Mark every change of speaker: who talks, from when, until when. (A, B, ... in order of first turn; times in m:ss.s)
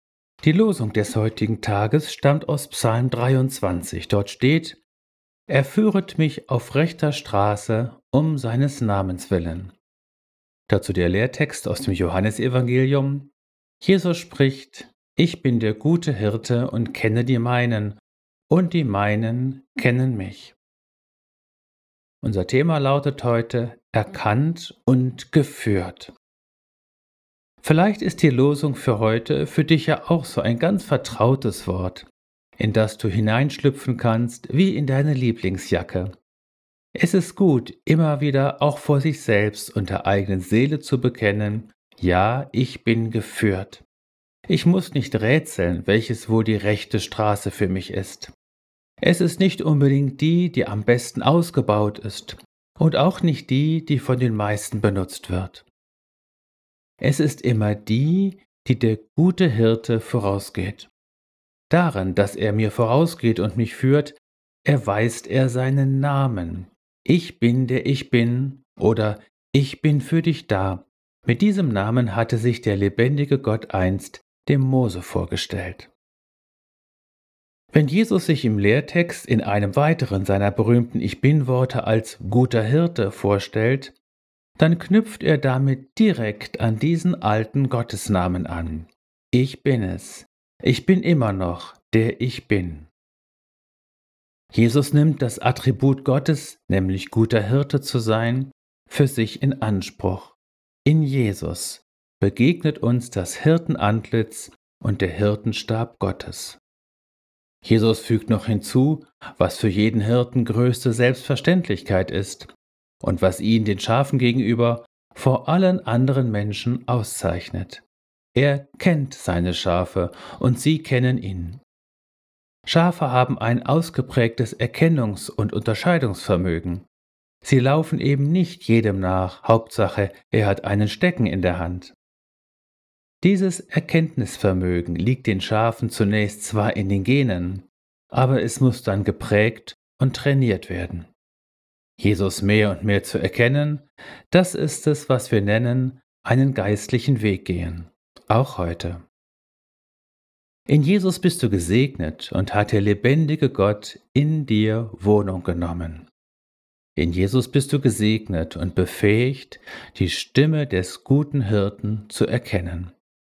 0:00.4-0:04.8 A
0:05.5-0:09.7 A
0:10.7-0:18.0 A
0:18.5-0:20.6 A
0:22.2-0:26.1 A
0:27.6-0:32.1 A
0:32.6-0:36.1 A
0:37.0-0:43.8 A
0:44.5-0:48.3 A
0:49.0-0:55.7 A
0:57.0-1:00.9 A
1:01.7-1:15.9 A
1:17.7-1:24.0 A
1:24.6-1:32.9 A
1:34.5-1:46.6 A
1:47.6-1:52.5 A
1:53.0-1:57.8 A
1:58.4-2:01.6 A
2:02.7-2:06.9 A
2:07.4-2:12.0 A
2:13.2-2:21.1 A
2:22.0-2:29.0 A
2:30.7-2:36.1 A
2:37.0-2:42.9 A